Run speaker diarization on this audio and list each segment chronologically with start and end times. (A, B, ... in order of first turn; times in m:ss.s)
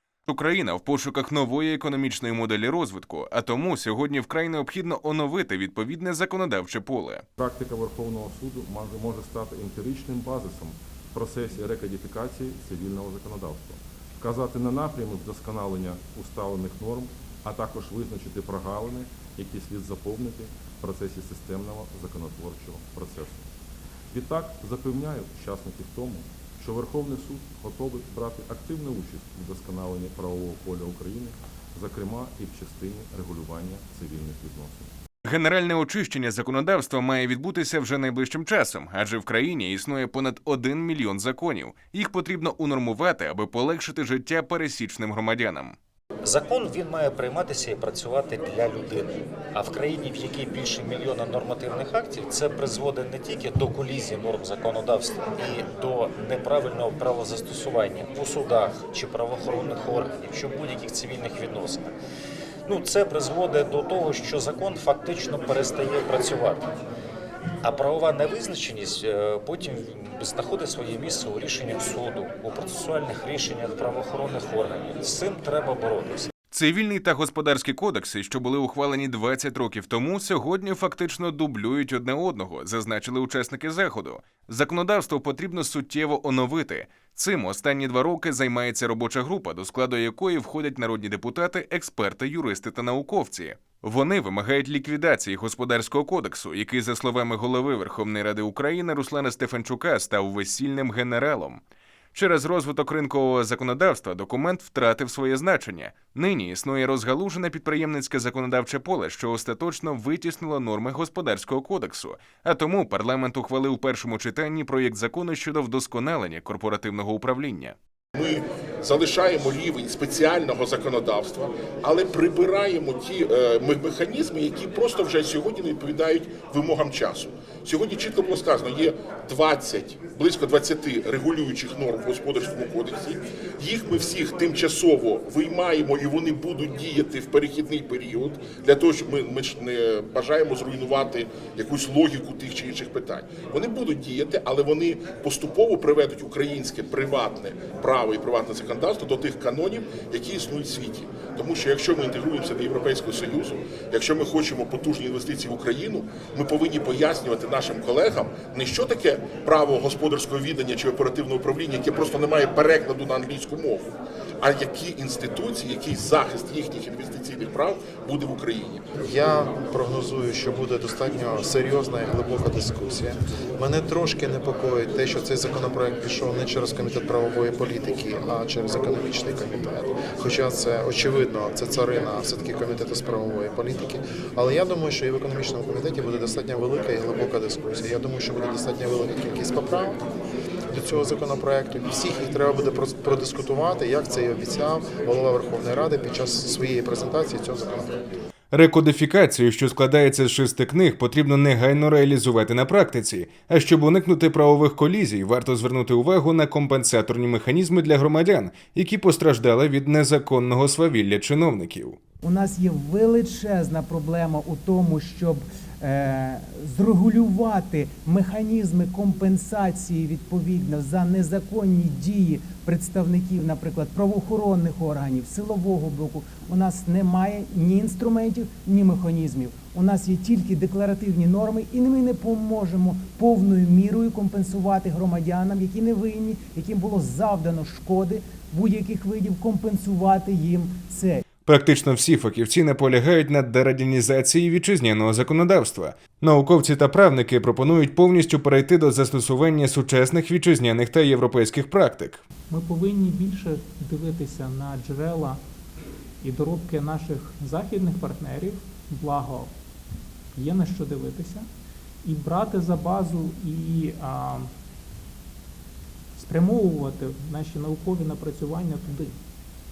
0:00.3-0:07.2 A
0:07.4-0:23.5 B
0:24.1-0:34.9 B
0:35.2-0:45.8 A
0:46.2-1:01.9 C
1:02.7-1:06.7 C
1:07.6-1:16.3 C
1:16.5-1:41.6 A
1:42.1-1:57.8 A
1:58.2-2:43.9 D
2:44.4-2:48.8 D
2:49.0-3:10.0 E
3:10.7-3:18.0 E
3:18.5-3:32.0 A
3:32.2-4:01.2 F
4:01.5-4:12.2 A
4:12.5-4:15.4 G
4:16.2-4:19.5 G
4:20.4-4:21.5 G
4:22.0-4:24.5 G
4:26.2-4:29.2 G